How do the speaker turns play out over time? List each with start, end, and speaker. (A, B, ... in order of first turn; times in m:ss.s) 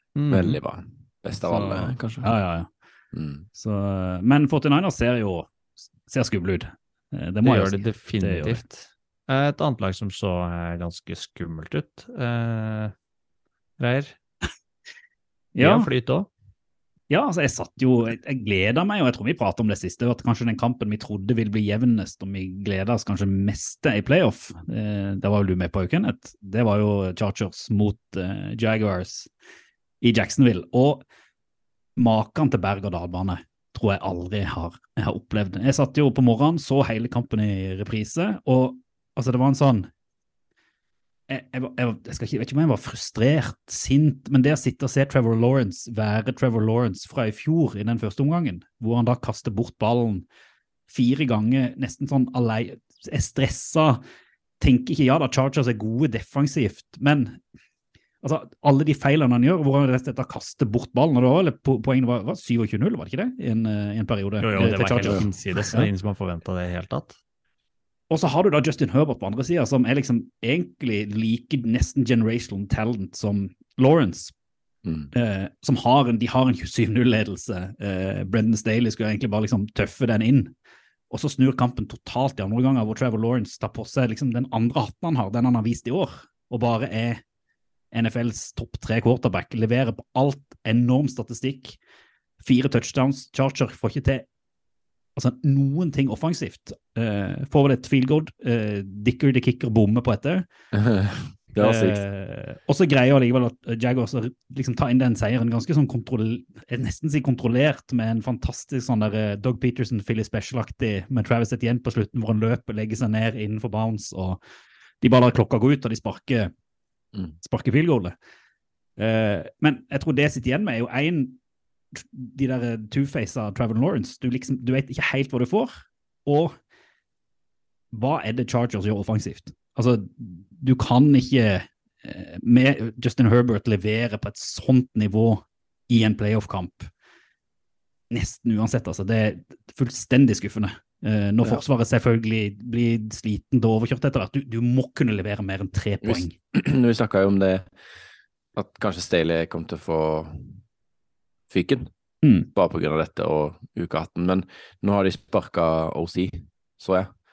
0:00.1-0:00.6 A
0:00.3-0:02.3 B
0:01.4-0:02.7 C
0:03.1-0:03.4 B
0:03.5-0:08.6 C
0:07.4-0:12.9 A
0:13.8-0:14.2 A
0:15.5-0:15.9 C
0:15.6-0:16.3 A
0:17.1-0:29.3 C
0:30.0-0:31.0 C
0:32.0-0:39.9 C
0:41.3-0:50.2 C
0:50.9-0:54.0 C
0:54.6-0:57.4 C
0:58.2-1:05.9 C
1:04.4-1:07.2 A
1:04.6-1:05.2 B
1:08.1-1:14.3 C
1:14.8-1:15.1 B
1:15.1-1:20.5 C
1:21.1-1:27.2 C
1:27.9-1:31.8 C
1:32.4-1:34.2 C
1:35.2-1:40.4 C
1:40.7-1:42.0 B
1:41.6-1:54.4 C
1:55.0-1:56.5 C
1:57.4-1:58.2 C
1:59.0-2:01.4 C
2:01.9-2:06.6 C
2:07.9-2:16.9 C
2:18.1-2:26.4 C
2:26.0-2:27.7 B
2:28.5-2:30.6 B
2:31.5-2:31.9 B
2:32.2-2:32.5 C
2:32.5-2:37.1 B